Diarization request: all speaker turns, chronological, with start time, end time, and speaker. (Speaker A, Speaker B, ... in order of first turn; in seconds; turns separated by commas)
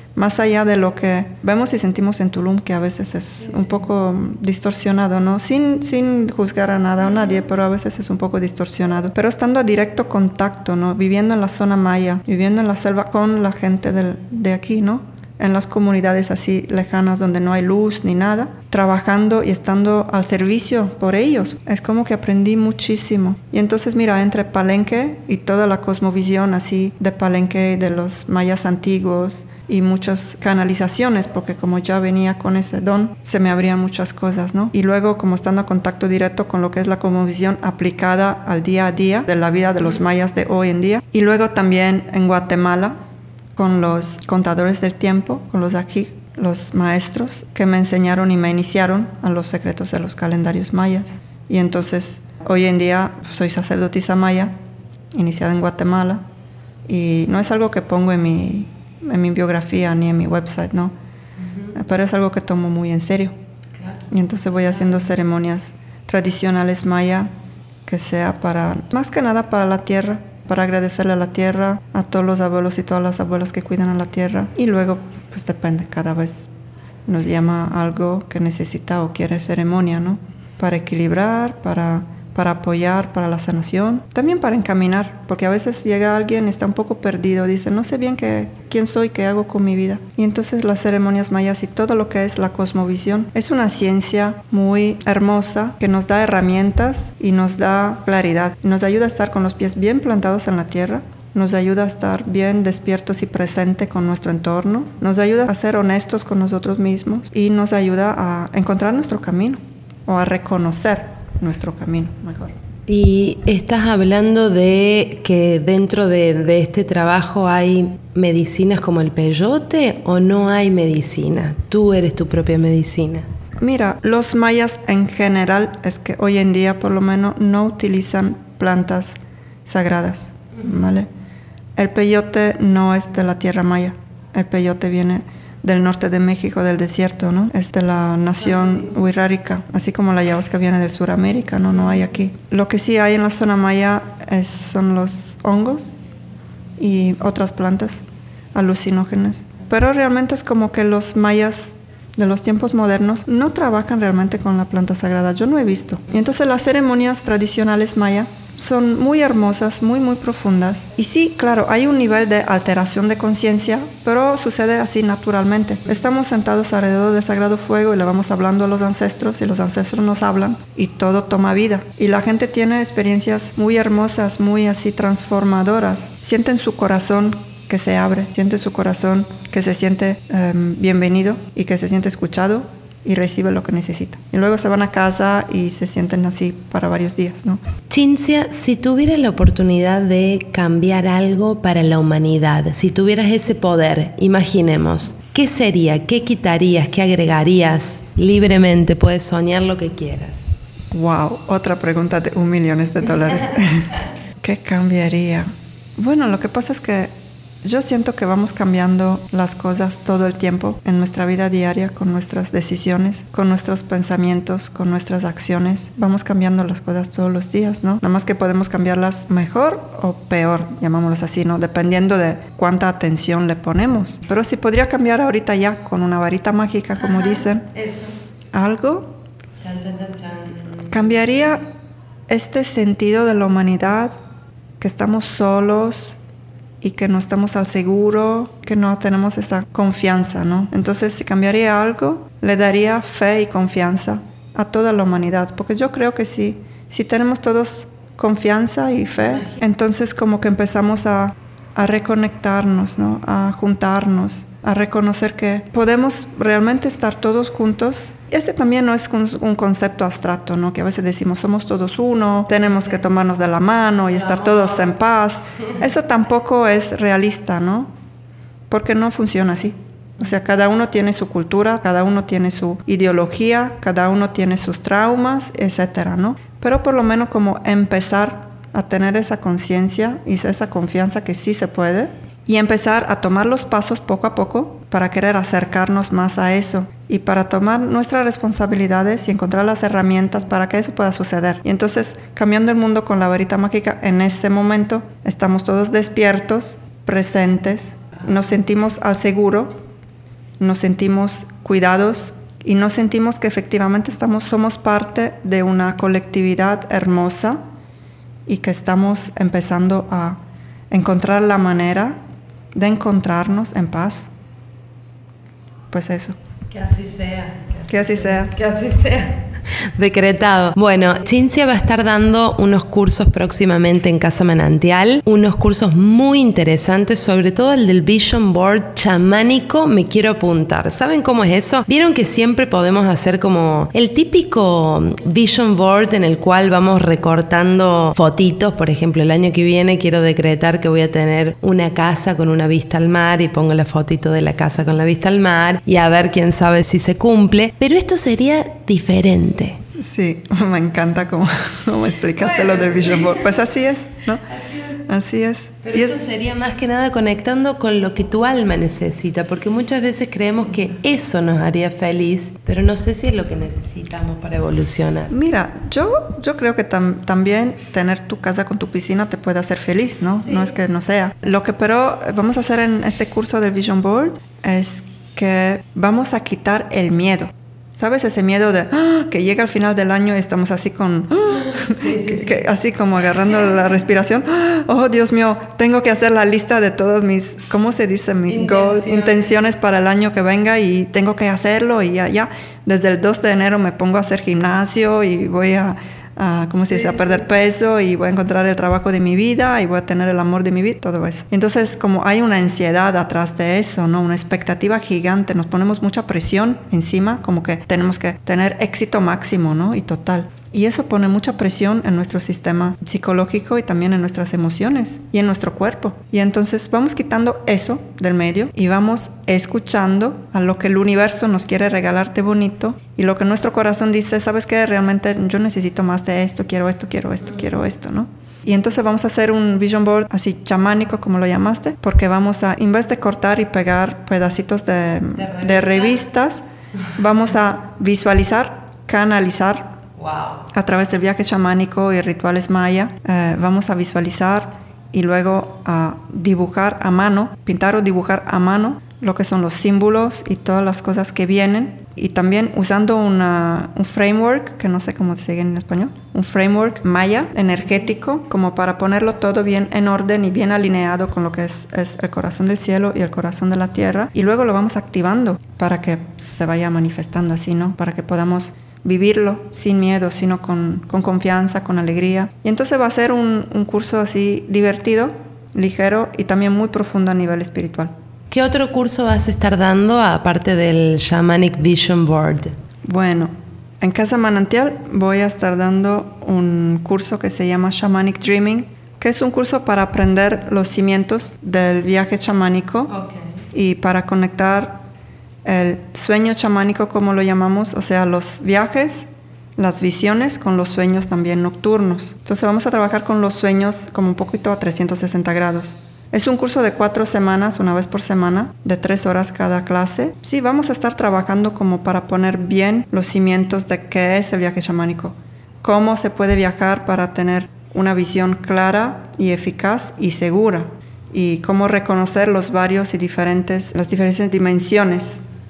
Speaker A: 0.1-43.0, Speaker A: 43.5-54.5, Speaker A: 55.1-56.2, Speaker A: 56.9-60.9, Speaker A: 61.7-63.3, Speaker A: 64.1-67.3, Speaker A: 67.8-76.5, Speaker A: 77.0-112.5, Speaker B: 112.9-123.3, Speaker A: 123.6-131.1, Speaker A: 131.8-145.9, Speaker A: 146.8-187.6, Speaker B: 187.9-200.4, Speaker A: 200.9-207.1, Speaker A: 207.6-227.7, Speaker B: 227.1-228.1, Speaker A: 228.5-229.1, Speaker B: 229.6-230.9, Speaker A: 230.9-231.7, Speaker A: 232.3-234.1, Speaker A: 234.8-236.2, Speaker A: 236.8-267.9, Speaker A: 268.7-299.8, Speaker A: 300.6-307.6, Speaker A: 308.4-310.4, Speaker A: 310.9-312.2, Speaker A: 312.7-314.3, Speaker A: 315.9-316.3, Speaker B: 316.7-349.8, Speaker A: 317.9-318.5, Speaker A: 349.9-354.4, Speaker B: 352.5-353.4, Speaker B: 354.5-355.0, Speaker A: 355.0-356.2, Speaker B: 355.8-365.3, Speaker A: 365.3-436.6, Speaker B: 381.7-382.6, Speaker B: 388.5-389.5, Speaker B: 396.9-397.4, Speaker B: 435.4-436.2, Speaker A: 437.1-439.9, Speaker B: 440.2-440.6, Speaker A: 440.7-478.1, Speaker B: 478.5-482.7, Speaker A: 483.0-493.1, Speaker B: 493.1-493.4, Speaker A: 493.7-495.0, Speaker A: 495.6-525.4